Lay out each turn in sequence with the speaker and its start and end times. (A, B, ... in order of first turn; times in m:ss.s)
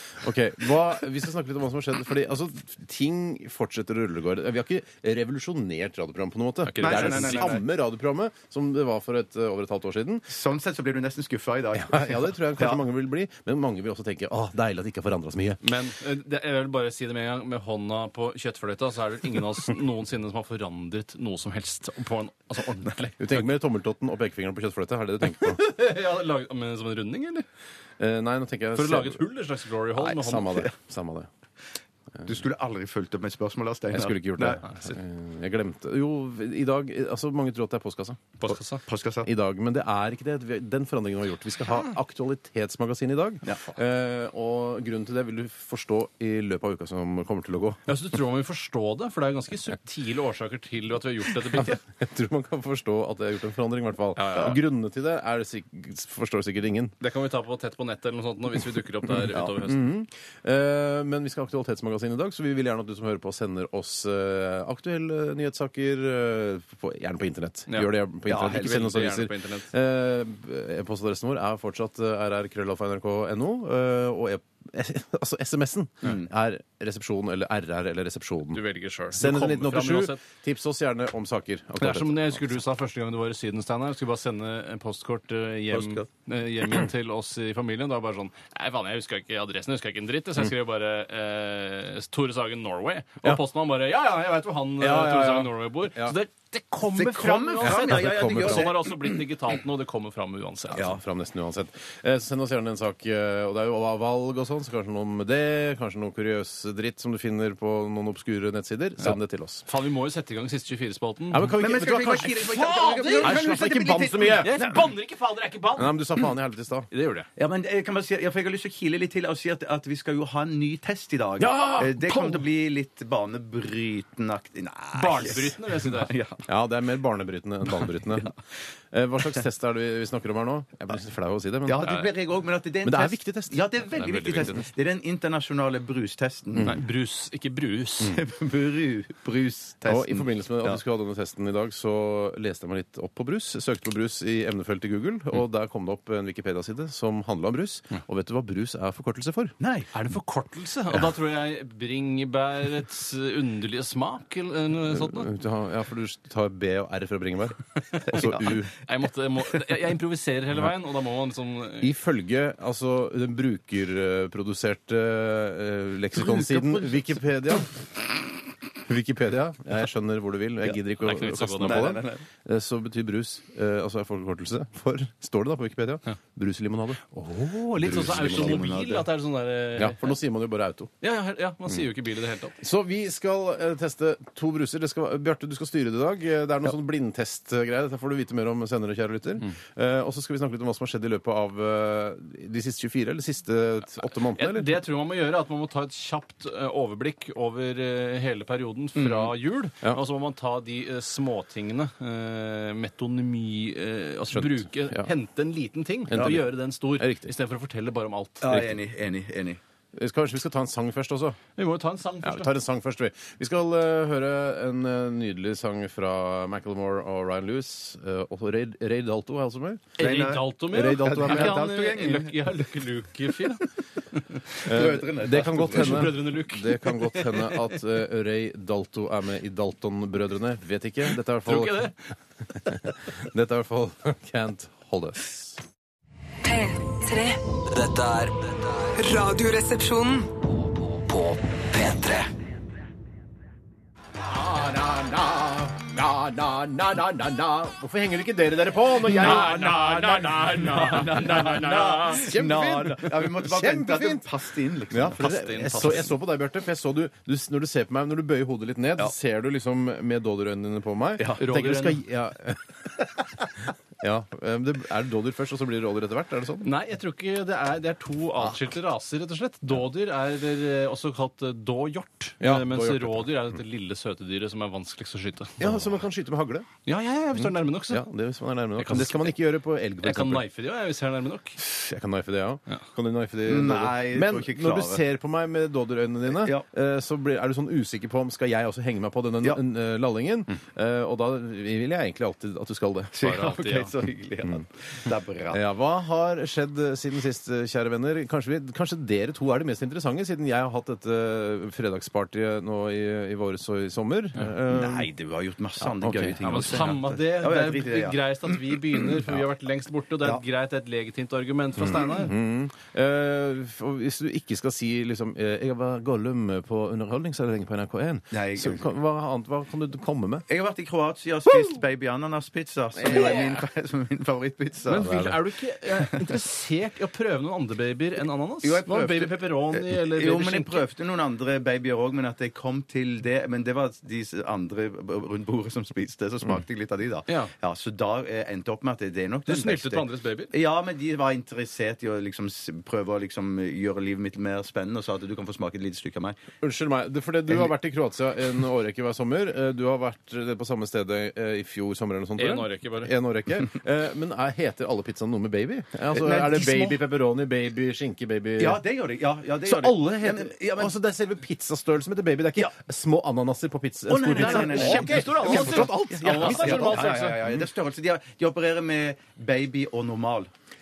0:00.2-0:10.3 A
0:06.6-0:07.6 B
0:06.8-0:07.6 C
0:10.3-0:12.8 C
0:11.7-0:15.6 A
0:15.6-0:23.5 B
0:23.2-0:25.6 A
0:25.4-0:27.4 B
0:28.0-0:29.2 A
0:28.7-0:30.7 B
0:30.1-0:31.3 A
0:32.2-0:34.6 C
0:33.9-0:38.3 A
0:34.6-0:35.0 B
0:38.4-0:38.8 B
0:38.8-0:39.3 C
0:39.2-0:47.8 A
0:47.8-0:51.8 B
0:51.6-0:57.0 A
0:54.1-0:54.6 B
0:57.0-0:59.8 B
0:59.3-1:22.6 A
1:07.7-1:09.7 B
1:08.3-1:08.7 C
1:18.5-1:20.2 B
1:21.8-1:41.0 B
1:25.7-1:26.0 C
1:34.8-1:36.2 A
1:36.9-1:39.2 C
1:37.5-1:38.7 A
1:40.7-1:49.6 A
1:49.0-1:51.6 B
1:51.3-1:52.3 A
1:51.6-1:54.9 C
1:52.2-1:53.4 B
1:53.2-1:54.6 A
1:54.4-1:56.1 B
1:55.8-1:56.9 A
1:56.9-1:57.3 B
1:57.4-2:06.4 C
2:01.4-2:02.4 A
2:04.9-2:06.1 B
2:06.5-2:08.3 A
2:07.8-2:08.3 C
2:08.9-2:11.9 A
2:11.6-2:16.8 C
2:12.8-2:13.6 A
2:14.0-2:14.6 B
2:16.6-2:18.2 B
2:18.1-2:20.8 C
2:19.8-2:29.5 A
2:29.6-2:29.9 C
2:29.9-2:35.3 B
2:34.8-2:38.7 A
2:37.9-2:41.9 B
2:41.8-2:47.8 A
2:46.2-2:47.1 C
2:48.8-2:58.7 A
2:51.0-2:52.0 B
2:51.6-2:52.2 C
2:57.3-3:00.2 B
2:57.8-2:59.1 C
2:59.8-3:00.9 A
3:01.0-3:02.6 B
3:02.6-3:14.8 A
3:14.3-3:28.7 B
3:19.0-3:19.3 C
3:24.3-3:25.1 A
3:26.1-3:27.3 A
3:26.1-3:26.4 C
3:28.4-3:29.6 C
3:29.9-3:31.4 A
3:31.6-3:32.5 B
3:32.2-3:40.0 A
3:40.0-3:44.6 B
3:40.0-3:42.6 C
3:40.7-3:41.7 A
3:44.6-3:46.2 C
3:44.6-3:51.9 A
3:45.6-3:47.7 B
3:51.4-3:52.0 B
3:52.5-3:55.6 A
3:56.4-3:57.4 D
3:57.6-3:58.9 E
3:59.0-4:00.3 D
4:00.4-4:02.3 E
4:04.2-4:14.3 A
4:09.1-4:12.3 B
4:09.2-4:09.5 C
4:10.7-4:16.0 C
4:14.9-4:26.7 A
4:15.1-4:16.1 B
4:21.4-4:22.0 B
4:26.6-4:35.9 B
4:32.4-4:33.4 A
4:35.6-4:36.7 A
4:36.8-4:38.0 B
4:37.9-4:40.4 A
4:38.8-4:39.3 B
4:40.0-4:41.6 B
4:41.6-4:53.2 A
4:43.4-4:45.0 C
4:46.3-4:46.6 C
4:53.1-4:55.6 C
4:53.2-4:53.9 B
4:55.5-5:05.1 A
5:04.7-5:08.8 C
5:05.8-5:06.9 A
5:06.4-5:12.3 B
5:11.8-5:20.4 A
5:18.3-5:18.8 C
5:20.5-5:25.3 C
5:23.0-5:23.5 A
5:23.1-5:23.5 B
5:24.9-5:30.8 B
5:24.9-5:25.4 A
5:28.6-5:46.4 C
5:39.5-5:40.5 B
5:46.6-5:58.8 A
5:52.4-5:53.1 B
5:56.1-5:57.0 C
5:58.6-6:00.9 C
5:59.6-6:07.6 A
6:04.1-6:10.5 C
6:04.4-6:07.4 B